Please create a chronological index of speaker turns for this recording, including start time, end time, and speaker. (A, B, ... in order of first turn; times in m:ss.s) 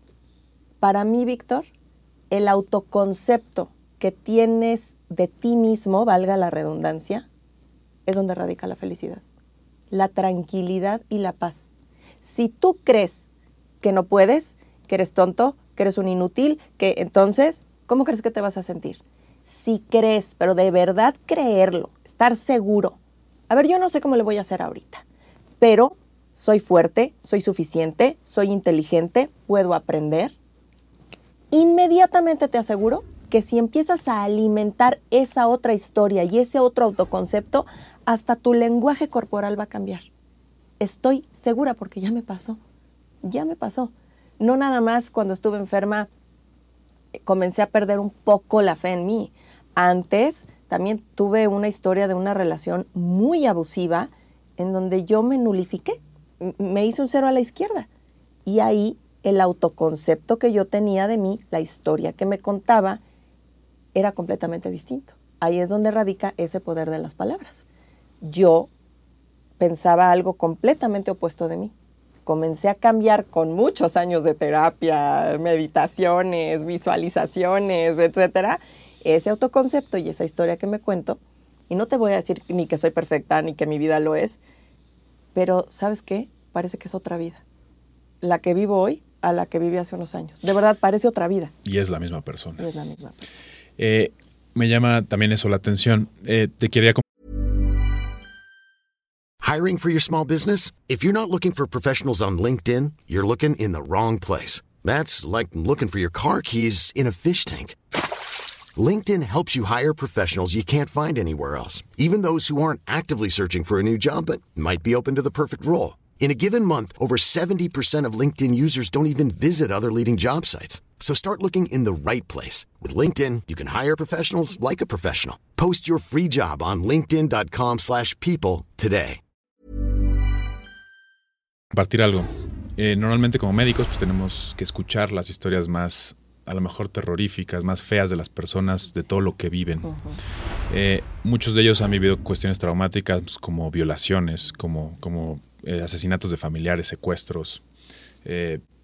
0:00.8-0:01.7 A
0:02.3-0:07.3 A
0:08.1-0:09.2 A
0:09.9-0:11.7 A
0:12.2-0:13.3 A
0:13.8-0:23.0 A
0:23.5-0:25.0 A
0:25.6-0:30.4 A
0:31.5-0:40.1 A
0:40.8-0:42.6 A
0:43.2-0:46.1 A
0:47.2-0:57.9 A
0:58.5-1:03.0 A
1:04.0-1:07.6 A
1:08.2-1:08.7 A
1:09.6-1:11.7 A
1:12.3-1:21.2 A
1:21.7-1:24.4 A
1:25.4-1:27.4 A
1:28.2-1:31.5 A
1:31.6-1:32.6 B
1:32.6-1:33.3 A
1:33.8-1:37.0 B
1:39.4-1:47.8 C
1:48.8-2:09.2 C
2:11.7-2:19.9 B
2:19.8-2:20.2 A
2:20.7-2:27.6 B
2:28.2-2:28.6 B